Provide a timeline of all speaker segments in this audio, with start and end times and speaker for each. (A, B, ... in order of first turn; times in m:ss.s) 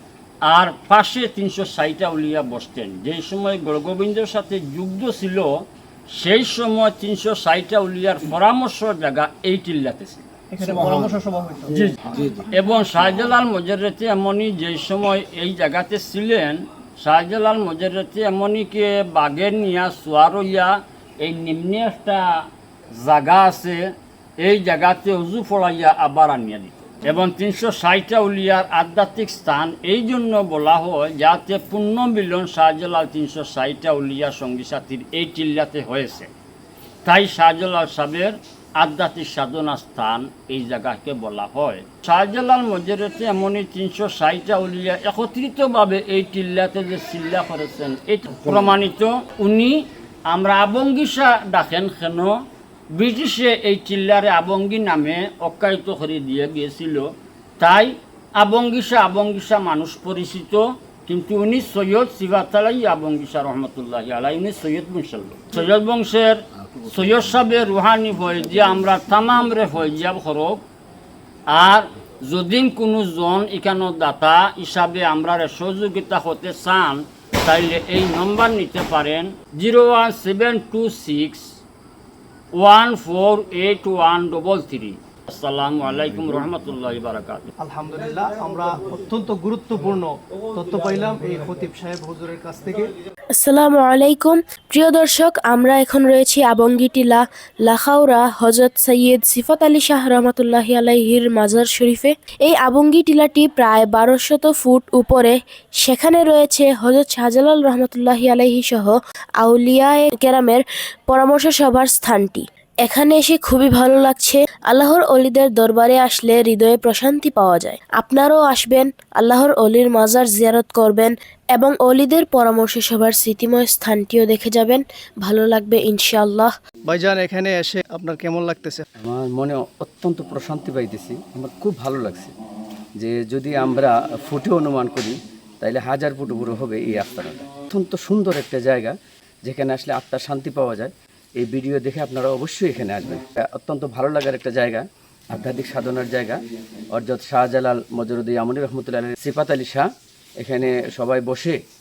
0:00.4-0:11.1 A
0:10.5-0:11.8 B
0:11.7-0:22.4 A
0:22.9-0:23.8 A
0:24.4-0:36.3 A
0:37.0-0:52.4 A
0:52.9-1:10.6 A
1:11.5-1:21.4 A
1:22.5-1:27.5 A
1:27.6-1:32.9 B
1:33.4-2:06.5 C
2:06.9-2:08.8 B
2:09.0-2:12.3 D
2:13.0-2:26.4 D
2:26.9-2:29.9 D
2:30.4-2:31.6 D